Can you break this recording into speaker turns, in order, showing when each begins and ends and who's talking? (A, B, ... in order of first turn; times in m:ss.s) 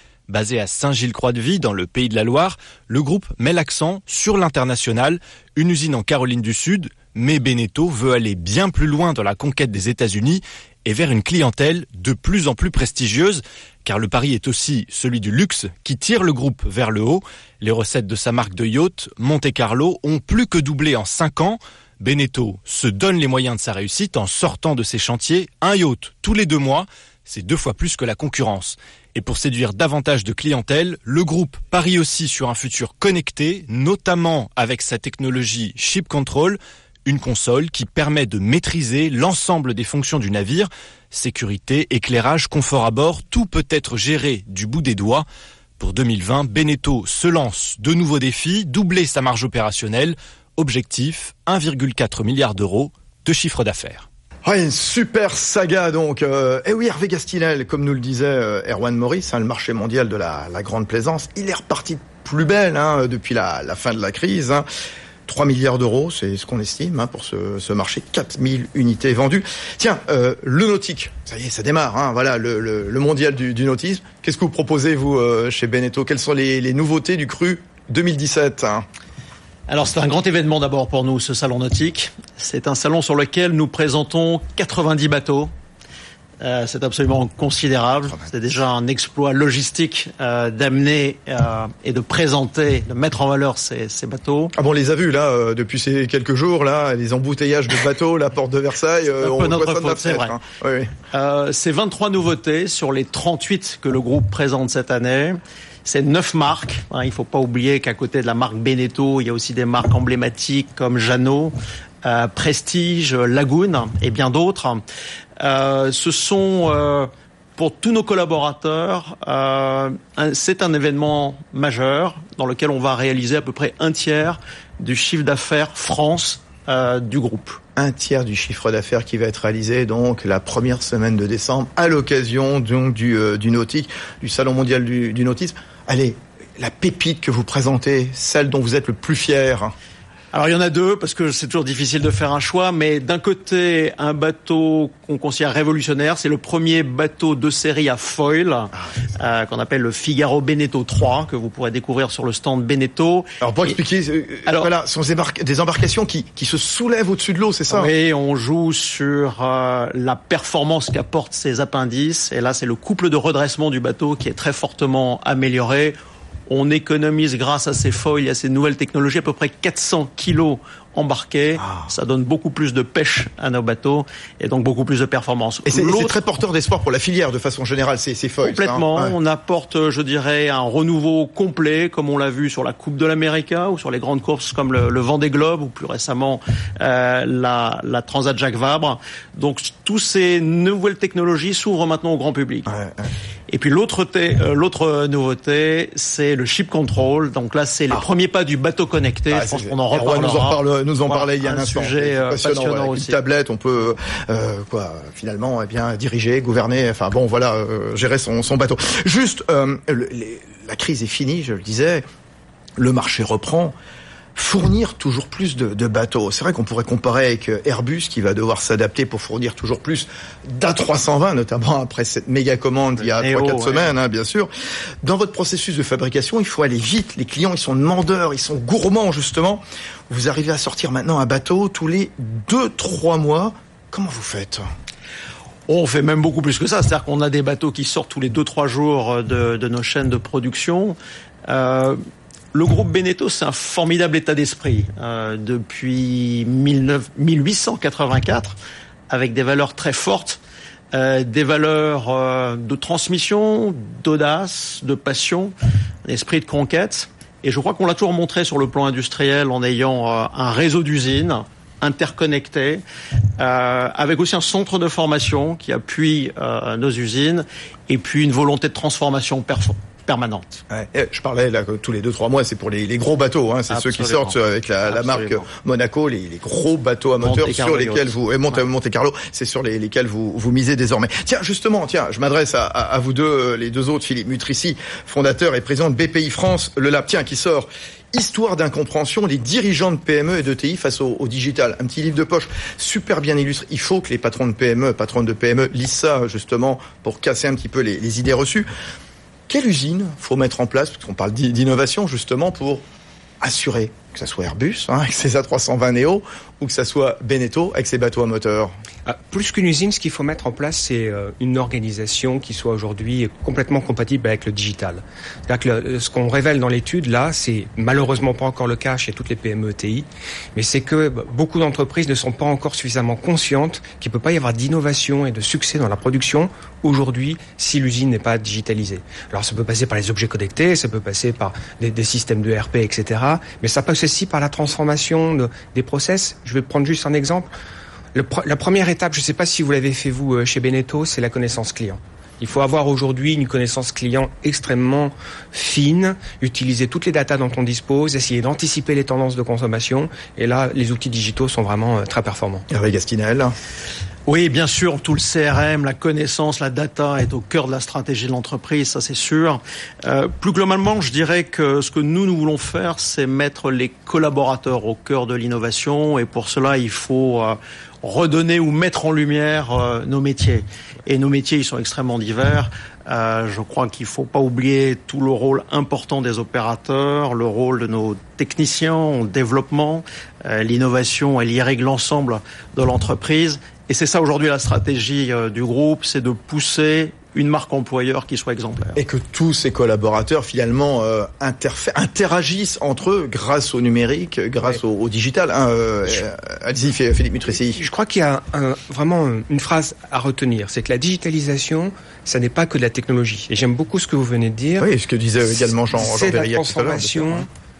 0:00.3-0:45.2 A
0:45.8-0:54.1 A
0:54.4-1:04.6 B
1:05.2-1:18.8 B
1:19.7-1:25.5 C
1:26.4-1:34.5 C
1:34.5-1:40.9 B
1:39.2-1:40.4 C
1:41.1-1:54.8 C
1:55.4-2:07.6 C
2:07.8-2:19.7 B
2:20.3-2:33.7 C
2:33.4-2:37.9 B
2:34.4-2:34.7 C
2:37.7-2:46.0 C
2:46.5-2:56.2 C
2:51.6-2:51.9 B
2:55.6-2:59.1 B
2:58.4-3:12.7 C
3:12.7-3:13.1 B
3:13.5-3:23.2 C
3:19.3-3:32.0 B
3:32.8-3:33.7 B
3:34.3-3:44.5 B
3:43.0-3:43.9 C
3:45.0-3:54.6 B
3:55.7-4:02.0 C
4:02.5-4:08.6 C
4:09.1-4:10.4 C
4:10.9-4:15.5 C
4:16.0-4:22.8 C
4:23.4-4:30.6 C
4:30.7-4:58.7 B
4:33.7-4:35.4 C
4:37.2-4:38.2 C
4:59.5-5:02.8 B
5:03.4-5:08.7 B
5:09.0-5:37.5 D
5:38.1-5:52.6 D
5:52.7-5:53.5 B
5:54.3-6:29.0 C
6:29.0-6:37.8 B
6:37.7-6:44.9 D
6:44.8-6:47.4 B
6:45.9-6:47.5 D